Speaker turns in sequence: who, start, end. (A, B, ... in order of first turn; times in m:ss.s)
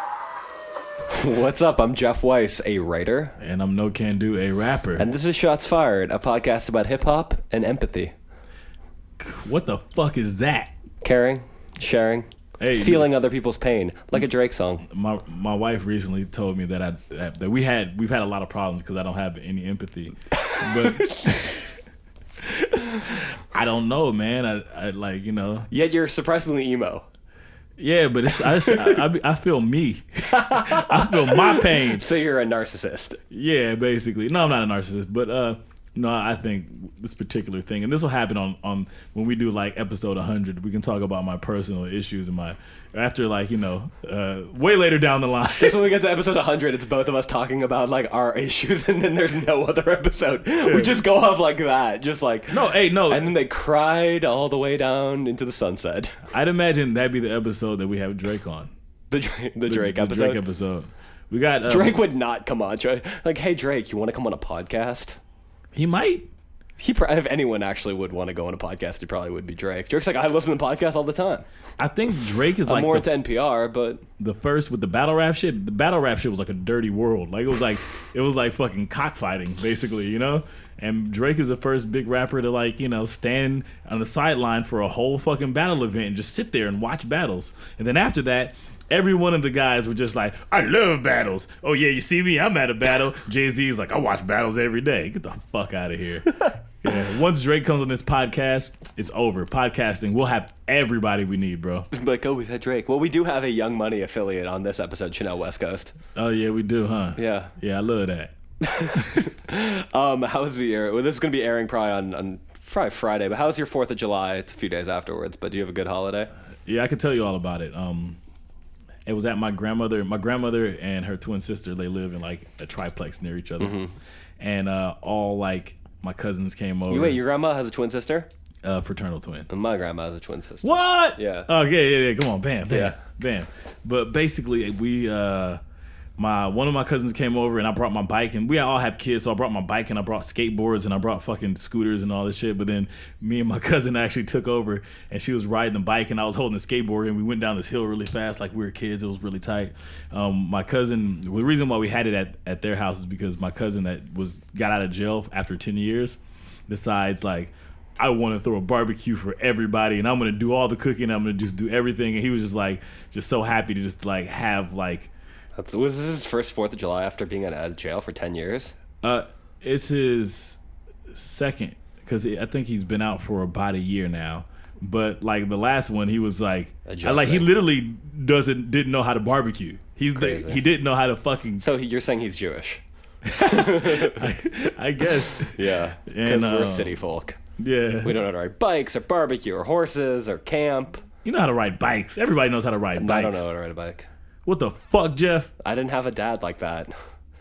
0:01.1-0:03.4 A
0:03.4-0:05.0 B
0:05.0-0:08.1 A
0:09.2-0:10.7 B
0:11.0-0:14.8 A
0:12.6-0:13.1 B
0:14.8-0:21.6 B
0:20.4-0:21.3 A
0:22.5-0:25.7 B
0:25.7-0:27.0 A
0:27.8-0:32.0 B
0:28.4-0:29.0 A
0:30.3-0:33.2 A
0:33.3-0:45.9 B
0:45.6-0:56.2 A
0:50.6-0:51.0 B
0:52.5-0:53.3 B
0:56.3-0:58.7 B
0:59.1-1:00.4 A
0:59.7-1:02.0 B
1:01.6-1:05.2 A
1:05.7-1:06.3 B
1:06.8-1:11.4 A
1:11.8-1:13.1 B
1:12.6-1:14.0 A
1:14.2-1:41.9 B
1:41.9-1:46.0 A
1:46.1-1:48.3 B
1:47.2-1:47.5 A
1:48.6-1:56.3 A
1:48.9-1:49.2 B
1:56.6-1:58.2 B
1:59.1-2:03.8 B
2:03.6-2:03.9 A
2:04.4-2:07.2 B
2:06.9-2:08.3 A
2:08.6-2:09.5 B
2:09.5-2:11.5 A
2:10.6-2:15.6 B
2:12.7-2:13.0 A
2:16.2-2:45.1 B
2:45.6-2:48.8 A
2:49.0-3:01.7 B
2:56.8-2:57.5 A
3:00.1-3:00.6 A
3:01.6-3:02.8 A
3:03.2-3:07.0 B
3:03.4-3:04.3 A
3:05.2-3:07.4 A
3:07.6-3:08.1 B
3:08.0-3:11.0 A
3:11.2-3:13.5 B
3:13.0-3:14.1 A
3:14.4-3:15.5 B
3:15.6-3:16.9 A